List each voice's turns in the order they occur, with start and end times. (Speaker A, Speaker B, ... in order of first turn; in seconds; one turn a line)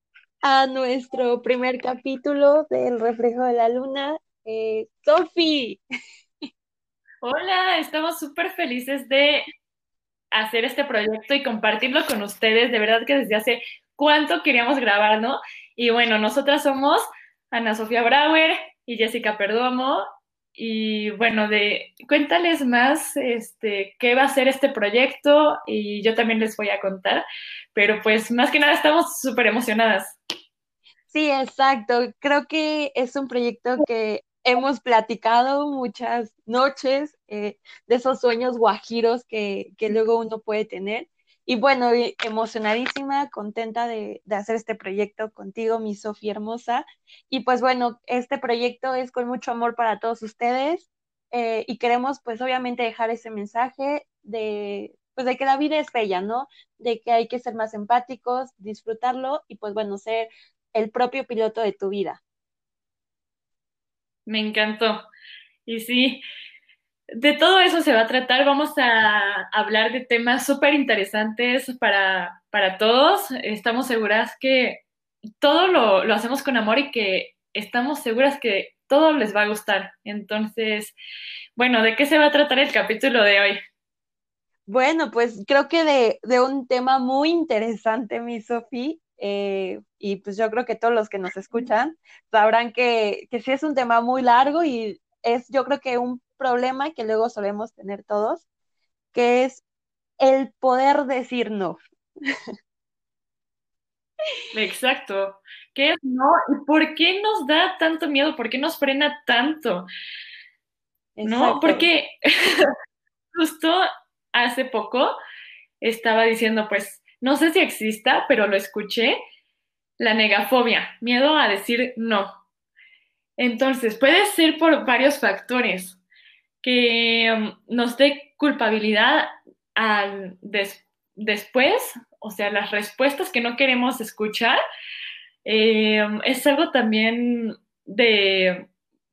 Speaker A: 0.4-5.8
Speaker B: 7.2-9.5
Speaker B: 10.3-20.0
Speaker B: 20.6-30.2
Speaker A: 31.1-62.2
Speaker B: 64.3-65.0
Speaker B: 65.7-66.2
Speaker B: 67.2-74.8
Speaker B: 75.4-81.0
Speaker B: 81.6-83.6
Speaker A: 84.7-98.5
Speaker A: 99.1-99.6
Speaker A: 100.2-101.8
Speaker B: 104.5-109.9
Speaker A: 111.2-111.9
Speaker B: 111.2-112.7
Speaker B: 113.3-115.2
Speaker B: 115.8-119.2
Speaker B: 120.0-122.3
Speaker B: 123.4-126.0
Speaker B: 126.6-134.6
Speaker B: 135.4-138.7